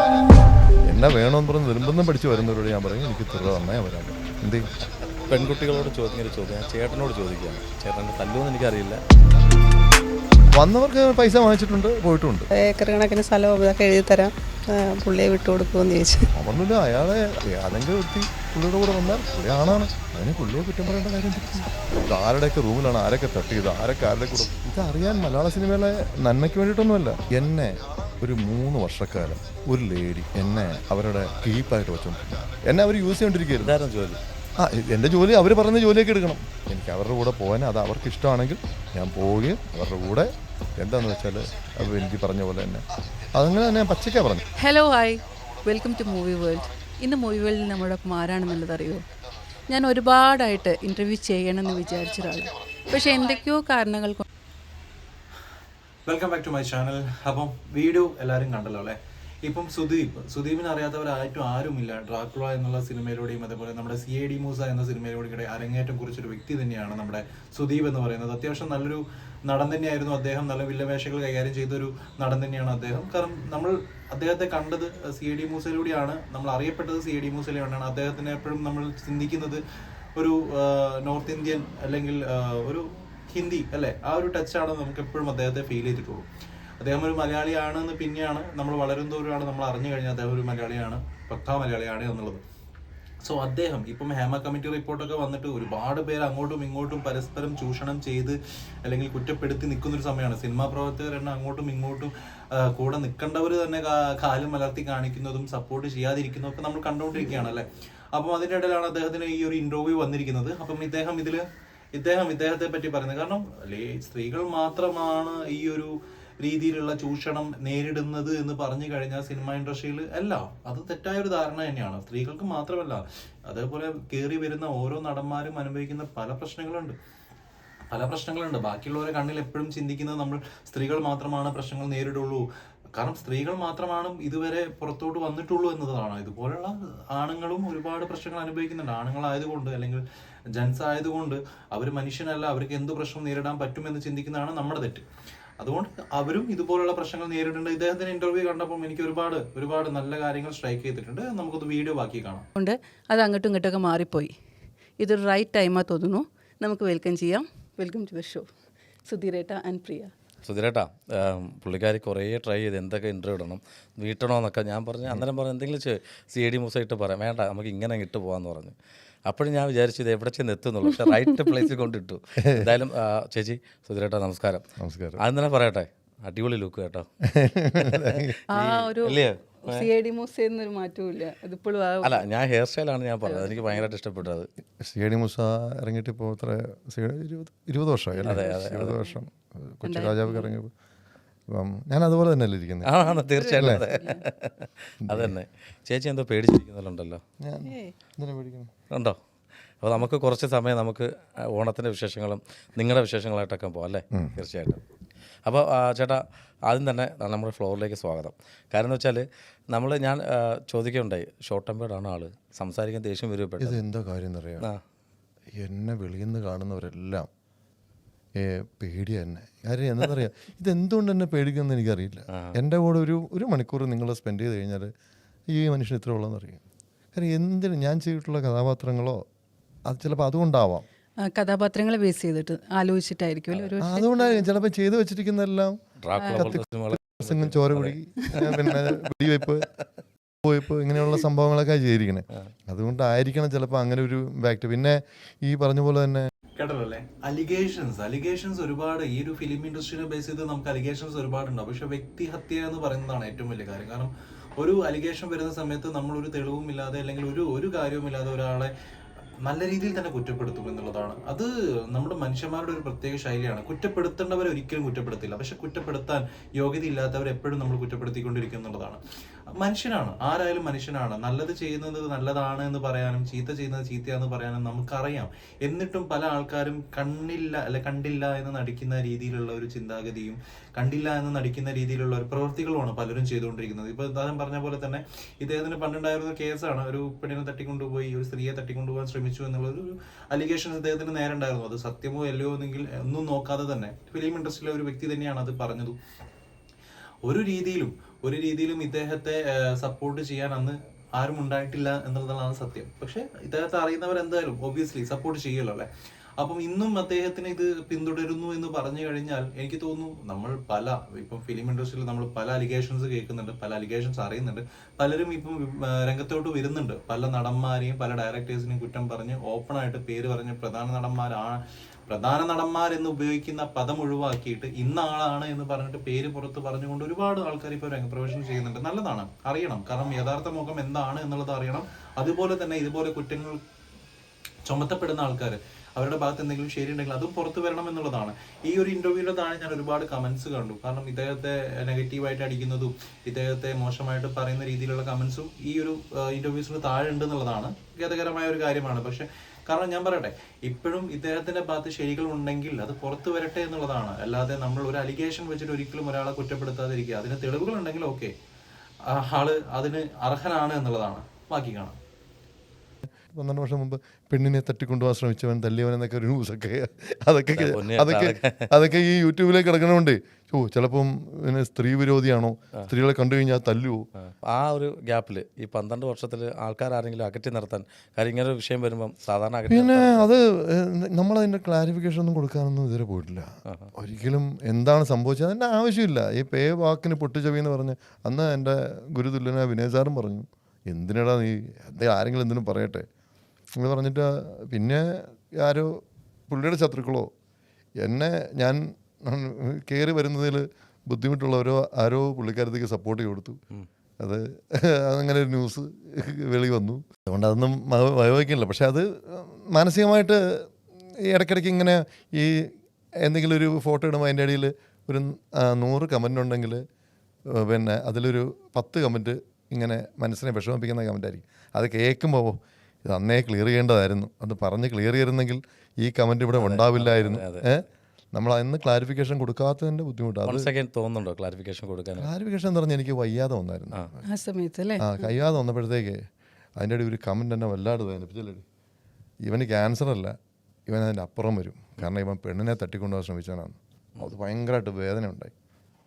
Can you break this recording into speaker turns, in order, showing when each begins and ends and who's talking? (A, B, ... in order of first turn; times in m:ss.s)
0:00.8-0:04.7 A
0:05.3-0:09.0 B
0:10.5-0:12.5 A
0:12.5-0:16.3 C
0:16.4-0:33.8 A
0:33.6-0:34.2 B
0:34.6-0:42.8 A
0:43.4-0:44.4 A
0:44.6-0:49.0 D
0:49.7-0:54.2 D
0:56.1-1:19.6 E
1:20.2-1:26.3 E
1:26.8-1:32.4 E
1:33.2-1:51.4 E
1:52.0-2:07.0 E
2:07.9-2:20.0 E
2:20.6-2:25.1 E
2:25.6-2:32.5 E
2:32.6-2:34.3 D
2:35.0-2:38.5 D
2:39.1-2:40.1 D
2:40.4-2:48.8 B
2:49.3-2:54.6 B
2:52.4-2:52.7 A
2:54.8-2:55.2 A
2:55.2-2:57.1 B
2:57.3-2:58.4 A
2:57.8-2:59.9 B
2:58.5-2:59.2 D
2:59.7-3:02.3 D
3:02.0-3:04.5 B
3:03.2-3:03.8 D
3:04.8-3:10.7 A
3:08.3-3:09.0 B
3:09.8-3:10.5 D
3:11.5-3:12.9 A
3:12.8-3:17.2 B
3:13.4-3:14.2 D
3:13.6-3:13.8 A
3:15.1-3:15.3 A
3:17.4-3:18.7 A
3:17.6-3:17.9 C
3:19.8-3:24.8 B
3:25.4-3:33.8 B
3:33.6-3:34.7 A
3:35.6-3:37.3 A
3:38.4-3:44.9 A
3:45.5-3:46.6 A
3:47.2-3:49.2 A
3:49.9-3:50.8 A
3:51.2-3:54.5 D
3:53.8-3:55.8 A
3:56.0-3:58.0 B
3:56.2-3:56.5 D
3:56.4-3:59.7 A
4:00.4-4:06.3 A
4:06.6-4:18.7 E
4:19.4-4:29.0 E
4:29.5-4:56.0 E
4:57.2-5:33.6 E
5:34.7-5:58.3 E
5:59.1-6:02.0 E
6:03.3-6:14.0 A
6:07.5-6:08.7 B
6:14.2-6:20.4 B
6:19.7-6:33.1 A
6:33.8-6:37.3 A
6:38.0-6:43.6 A
6:44.2-6:50.7 A
6:51.2-6:56.8 A
6:57.5-7:10.7 A
7:06.6-7:07.7 B
7:10.5-7:12.3 B
7:12.2-7:14.0 A
7:14.2-7:15.3 D
7:15.0-7:16.2 A
7:16.8-7:18.6 A
7:19.5-7:20.4 A
7:20.9-7:25.5 A